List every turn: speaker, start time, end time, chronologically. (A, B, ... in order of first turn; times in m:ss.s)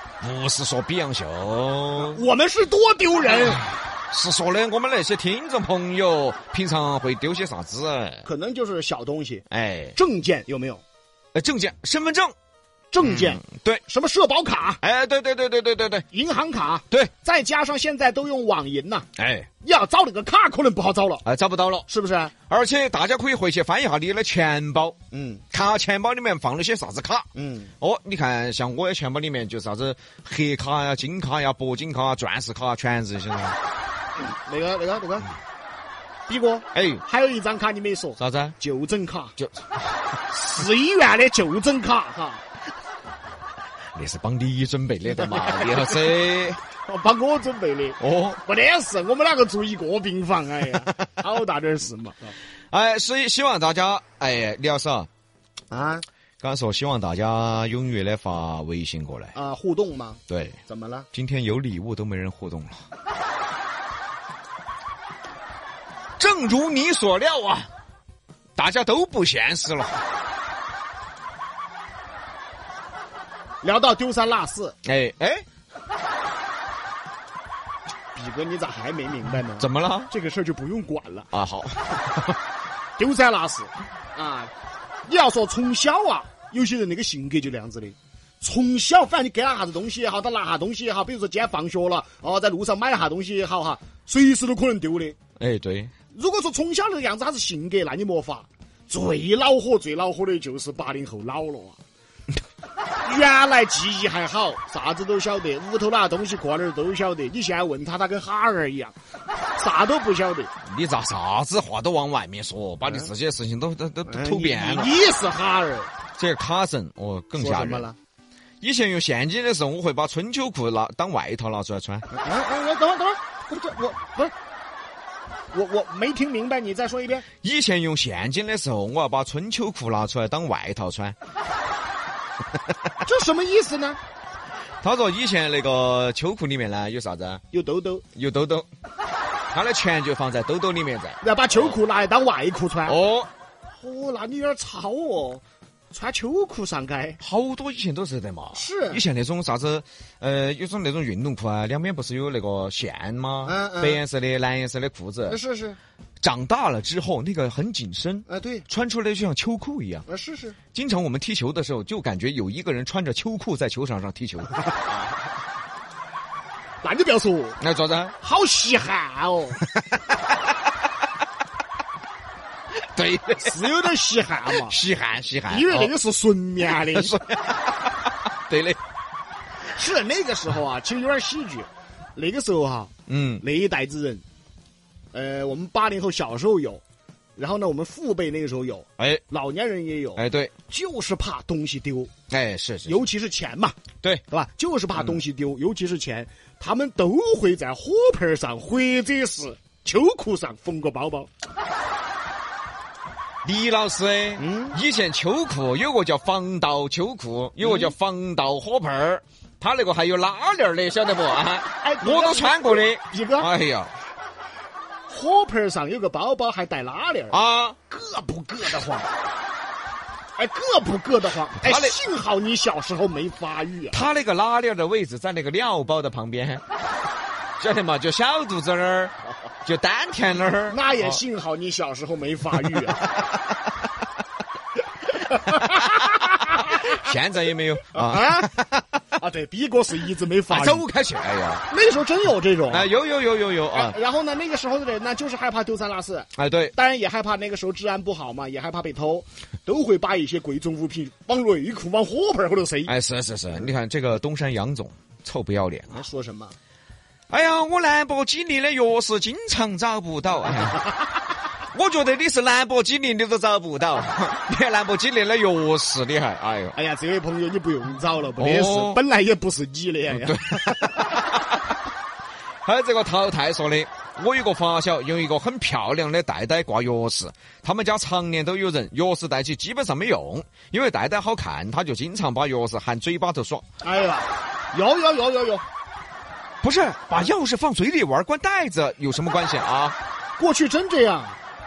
0:00.2-0:02.2 A
0:02.0-0:03.6 B
0:03.5-0:08.2 A
0:08.2-0:09.4 B
0:09.5-0:10.0 A
0:09.9-0:10.8 B
0:11.3-0:12.3 A
0:12.9-0:14.8 B
0:13.0-0:13.8 A
0:14.8-0:16.1 A
0:16.1-0:19.1 B
0:19.2-0:19.5 A
0:19.6-0:21.2 B
0:21.2-0:21.9 A
0:21.9-0:22.3 B
0:22.5-0:25.0 A
0:25.1-0:25.4 B
0:25.5-0:27.3 A
0:27.3-0:27.7 B
0:27.8-0:33.6 A
0:34.2-0:35.3 B
0:36.3-0:39.3 B
0:36.7-0:37.0 A
0:38.2-0:38.5 A
0:40.3-0:42.4 B
0:43.9-0:46.6 A
0:45.2-0:45.9 B
0:46.8-0:52.3 B
0:48.0-0:48.4 A
0:52.7-0:55.1 A
0:55.7-0:56.0 B
0:56.4-0:59.3 A
0:59.3-1:01.1 B
1:00.3-1:00.6 A
1:01.1-1:02.8 A
1:06.2-1:07.7 A
1:08.6-1:10.0 A
1:13.6-1:14.8 B
1:14.8-1:15.4 A
1:18.1-1:21.3 B
1:19.6-1:20.1 A
1:21.3-1:22.4 A
1:23.0-1:24.5 B
1:25.1-1:35.2 B
1:35.4-1:35.9 A
1:36.1-1:41.8 B
1:43.0-1:48.9 B
1:49.6-1:50.5 B
1:50.6-1:54.9 A
1:54.1-1:55.9 B
1:56.2-1:57.9 A
1:57.4-1:58.0 B
1:58.6-2:02.1 A
2:02.1-2:04.3 B
2:05.5-2:07.2 B
2:07.4-2:11.1 A
2:13.0-2:14.0 B
2:14.8-2:17.4 A
2:17.5-2:18.0 B
2:18.1-2:18.7 A
2:19.5-2:21.8 A
2:21.2-2:23.0 B
2:22.8-2:23.3 A
2:23.8-2:27.2 B
2:27.2-2:35.4 A
2:28.5-2:29.0 B
2:33.4-2:34.0 B
2:35.3-2:35.8 B
2:36.2-2:40.0 A
2:38.3-2:38.6 B
2:40.1-2:40.6 B
2:40.7-2:44.7 A
2:46.8-2:47.6 B
2:47.6-2:48.1 A
2:48.2-2:49.6 B
2:52.8-2:53.6 A
2:53.4-2:54.8 B
2:54.5-2:55.9 A
2:55.5-2:57.2 B
2:56.9-2:58.8 A
2:59.7-3:02.9 B
3:03.1-3:03.4 A
3:03.4-3:04.2 B
3:05.1-3:06.8 B
3:07.4-3:12.1 B
3:09.0-3:09.2 A
3:10.2-3:10.5 A
3:12.3-3:13.0 A
3:12.9-3:13.8 B
3:14.3-3:21.3 B
3:23.4-3:33.9 A
3:24.4-3:24.8 B
3:27.6-3:27.9 B
3:31.8-3:33.5 B
3:35.1-3:37.4 B
3:37.3-3:37.8 A
3:37.9-3:39.1 B
3:40.4-3:44.0 B
3:41.6-3:42.0 A
3:43.9-3:46.6 A
3:47.6-3:49.1 A
3:49.6-3:51.2 A
3:50.7-3:53.0 B
3:52.5-3:53.4 A
3:55.3-3:57.0 B
3:55.6-3:59.0 A
3:57.9-4:00.9 B
4:00.5-4:01.7 A
4:01.7-4:02.9 B
4:02.7-4:04.0 A
4:03.7-4:12.9 B
4:06.4-4:06.8 A
4:12.9-4:16.0 A
4:15.9-4:16.6 B
4:17.3-4:21.0 A
4:21.7-4:26.8 A
4:26.7-4:31.2 B
4:28.4-4:29.0 A
4:30.1-4:31.6 A
4:32.6-4:43.6 A
4:43.8-4:45.6 B
4:46.6-4:50.0 A
4:50.4-4:51.4 B